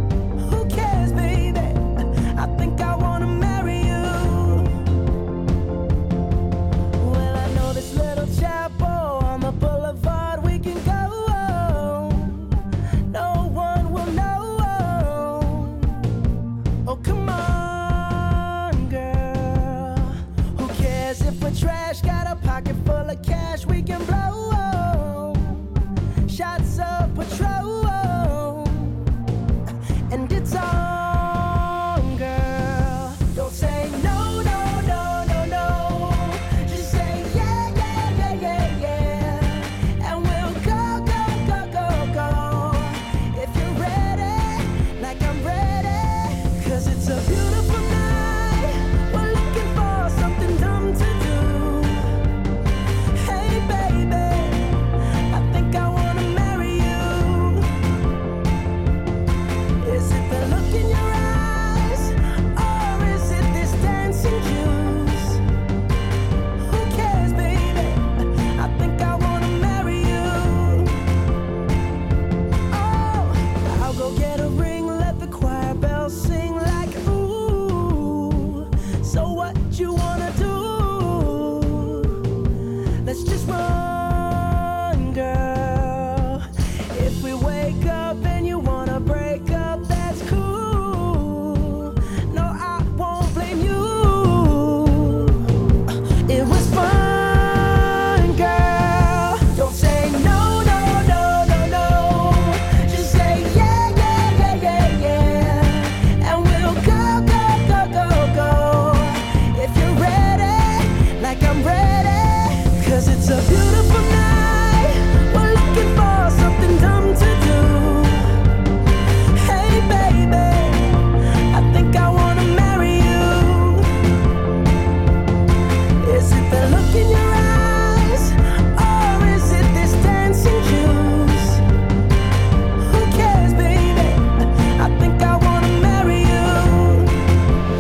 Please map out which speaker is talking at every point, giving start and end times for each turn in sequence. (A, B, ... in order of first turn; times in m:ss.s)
0:00.4-0:04.7 A
0:07.0-0:12.6 A
0:13.1-0:16.2 A
0:16.8-0:25.7 A
0:26.3-0:29.0 A
0:30.1-0:52.1 A
0:53.1-0:57.7 A
0:59.8-1:05.4 A
1:06.6-1:11.0 A
1:12.7-1:22.3 A
1:23.0-1:35.7 A
1:36.3-1:58.3 A
1:59.3-2:03.9 A
2:06.0-2:11.6 A
2:12.8-2:17.2 A